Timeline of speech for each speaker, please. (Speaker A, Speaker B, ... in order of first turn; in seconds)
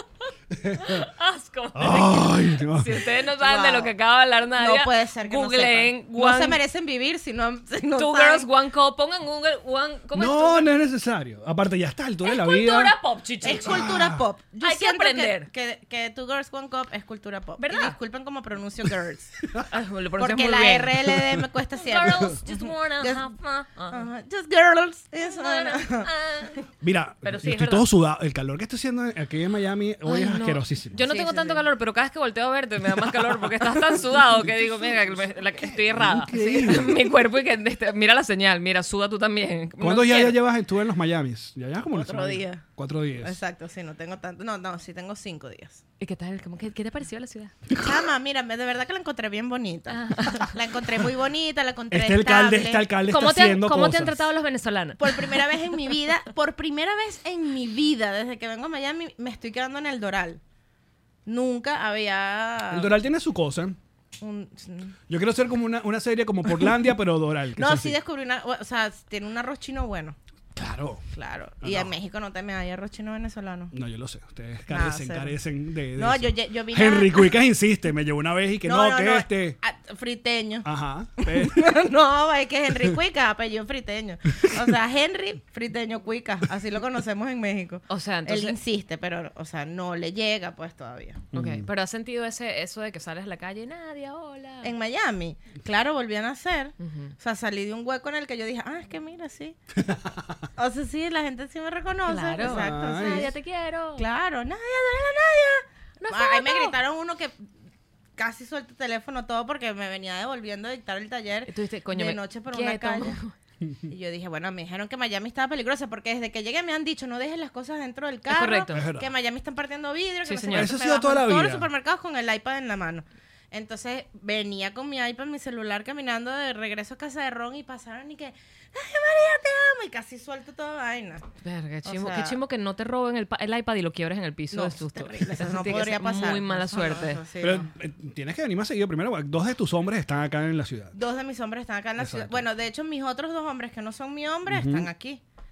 Speaker A: 0.5-1.1, 1.7-3.1, 10.1-12.9, 13.5-14.2, 26.8-31.0, 35.6-37.0, 39.8-43.4, 51.9-54.2, 62.7-63.8, 65.1-68.0, 70.5-71.0, 71.6-71.9, 73.7-79.6, 80.6-81.7, 91.3-91.7, 99.8-100.2, 102.4-103.3, 118.7-119.1, 120.5-121.7, 137.4-140.9, 142.0-142.4, 144.5-144.9
Speaker B: 0.8-6.6, 8.0-10.7, 12.2-13.8, 14.6-15.5, 17.6-17.9, 19.7-21.1, 21.8-24.1, 25.2-26.6, 27.2-27.9, 30.0-40.4, 46.0-47.5, 49.9-50.5, 53.1-55.5, 87.9-88.6, 91.3-94.7, 96.8-97.1, 102.1-104.0, 106.0-106.8, 111.5-113.3, 118.3-118.8, 120.2-120.7, 131.4-137.2
Speaker C: 3.4-3.9, 4.6-8.5, 13.4-19.4, 20.2-23.2, 23.9-26.1, 31.0-31.6, 36.4-36.7, 41.9-42.6, 43.2-45.8, 47.8-52.9, 55.0-60.4, 61.2-62.9, 64.2-65.0, 67.5-70.2, 71.1-73.7, 74.7-75.3, 76.0-77.3, 78.6-80.7, 81.2-91.2, 94.6-99.6, 100.6-103.3, 104.0-107.4, 108.2-113.2, 113.9-131.2, 131.8-132.3, 134.5-137.7, 140.9-145.2